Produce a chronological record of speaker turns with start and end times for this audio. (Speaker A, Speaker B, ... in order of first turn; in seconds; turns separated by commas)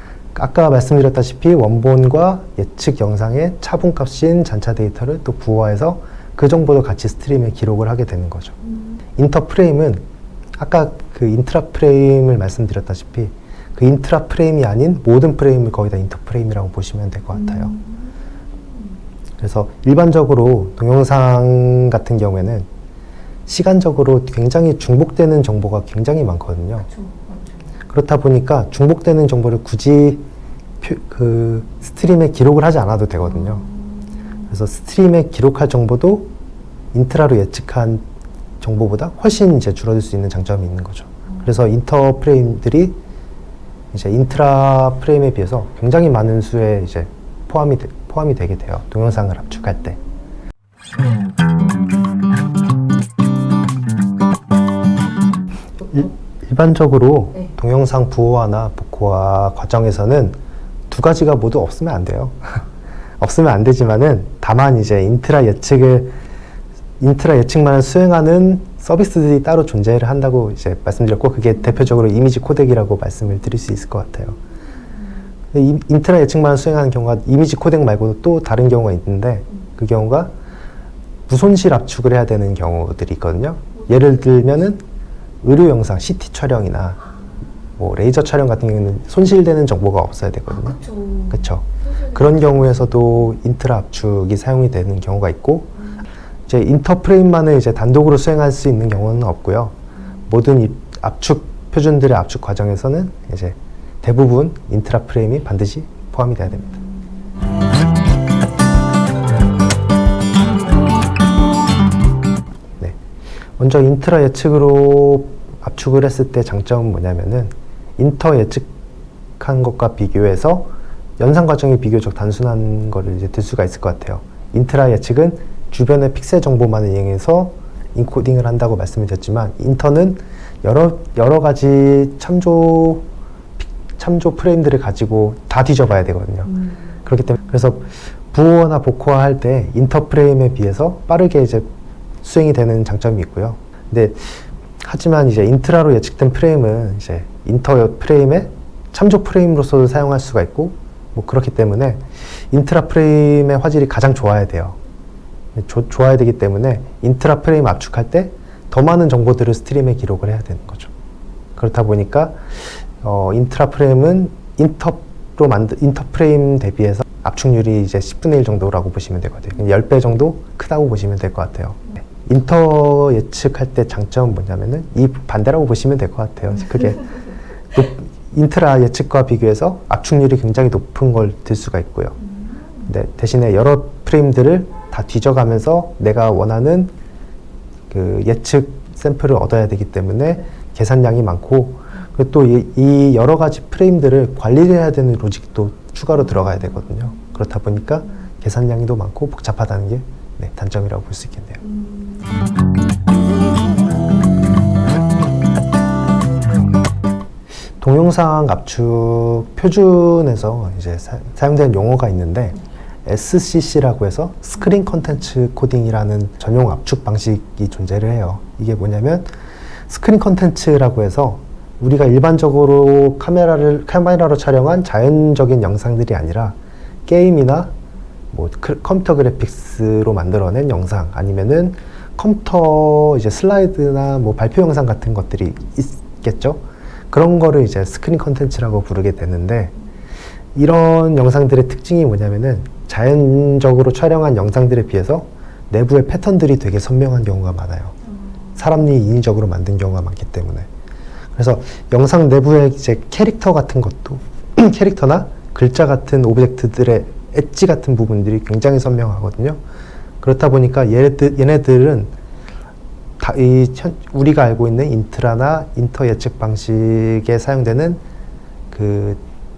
Speaker A: 0.3-8.6, Speaker B: 8.6-9.0, Speaker A: 9.2-10.0, Speaker A: 10.6-17.8, Speaker B: 17.3-19.0, Speaker A: 19.4-22.7, Speaker A: 23.5-26.9, Speaker B: 26.9-27.8, Speaker A: 27.9-30.2, Speaker A: 30.8-33.6, Speaker B: 33.4-34.4, Speaker A: 34.5-36.3, Speaker A: 36.9-38.0, Speaker A: 38.6-43.0, Speaker A: 43.9-50.0, Speaker A: 55.9-60.4, Speaker A: 60.9-62.6, Speaker A: 63.2-66.1, Speaker A: 67.0-74.4, Speaker A: 75.5-80.3, Speaker A: 81.3-84.8, Speaker B: 83.8-84.5, Speaker A: 85.4-87.0, Speaker A: 87.8-90.8, Speaker B: 90.5-93.1, Speaker A: 91.3-95.7, Speaker A: 96.5-99.8, Speaker A: 100.3-106.8, Speaker A: 113.6-118.7, Speaker A: 119.4-133.1, Speaker A: 133.6-141.7, Speaker B: 136.5-137.0, Speaker A: 142.2-154.8, Speaker A: 155.6-160.9, Speaker A: 161.6-177.2, Speaker A: 177.7-182.2, Speaker B: 182.2-182.9, Speaker A: 182.9-186.9, Speaker A: 187.9-201.6, Speaker B: 197.1-197.5, Speaker B: 201.6-202.5, Speaker A: 207.8-219.3, Speaker A: 219.9-226.6, Speaker A: 227.1-227.7, Speaker A: 228.3-239.7, Speaker A: 240.6-247.9, Speaker B: 248.1-248.6, Speaker A: 248.6-250.7, Speaker A: 251.4-259.6, Speaker A: 260.2-262.1, Speaker A: 263.2-268.0, Speaker A: 268.7-269.2